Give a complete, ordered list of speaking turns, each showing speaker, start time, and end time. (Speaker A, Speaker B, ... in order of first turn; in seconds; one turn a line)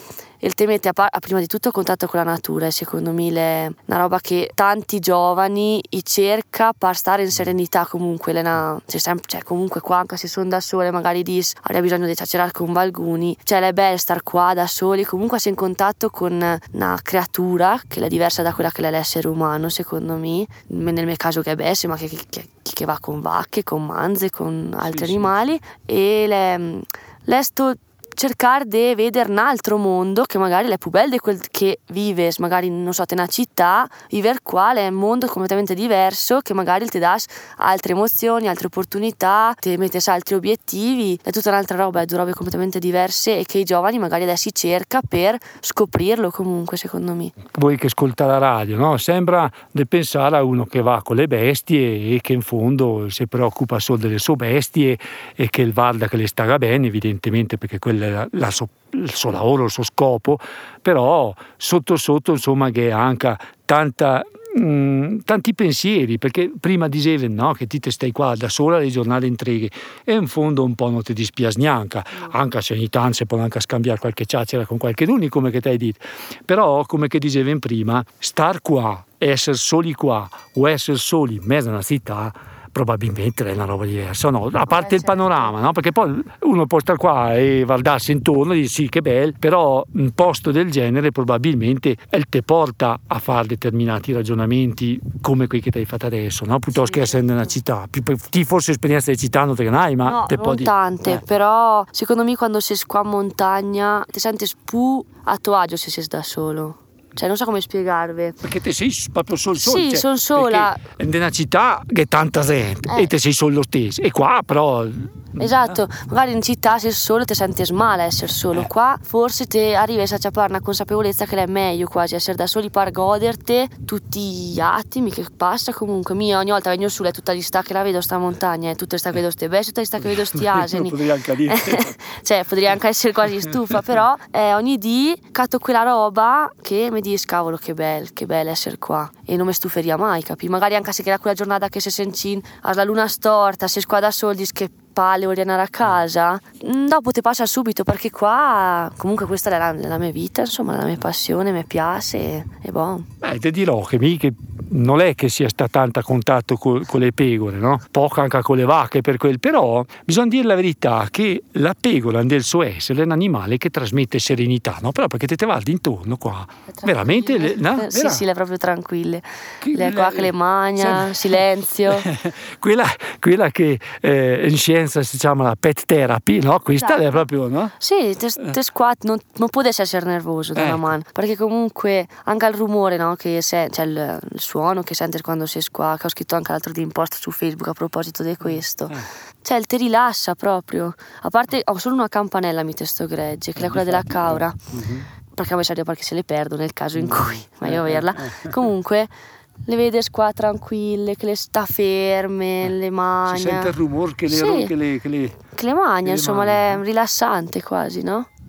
Speaker A: 0.4-47.3
Speaker B: 24.9-25.4
Speaker B: 47.5-101.2
Speaker A: 84.7-85.6
Speaker A: 96.8-97.4
Speaker A: 100.0-108.4
Speaker B: 108.4-115.8
Speaker A: 109.6-110.8
Speaker A: 115.4-153.1
Speaker B: 130.1-131.9
Speaker B: 153.2-168.2
Speaker A: 166.8-172.1
Speaker B: 169.6-177.7
Speaker A: 176.8-177.2
Speaker A: 177.8-194.6
Speaker B: 180.6-180.9
Speaker B: 193.6-195.1
Speaker A: 195.4-199.1
Speaker B: 197.0-198.5
Speaker A: 199.7-203.8
Speaker B: 203.3-205.4
Speaker A: 204.3-204.7
Speaker A: 205.5-208.3
Speaker B: 206.0-206.8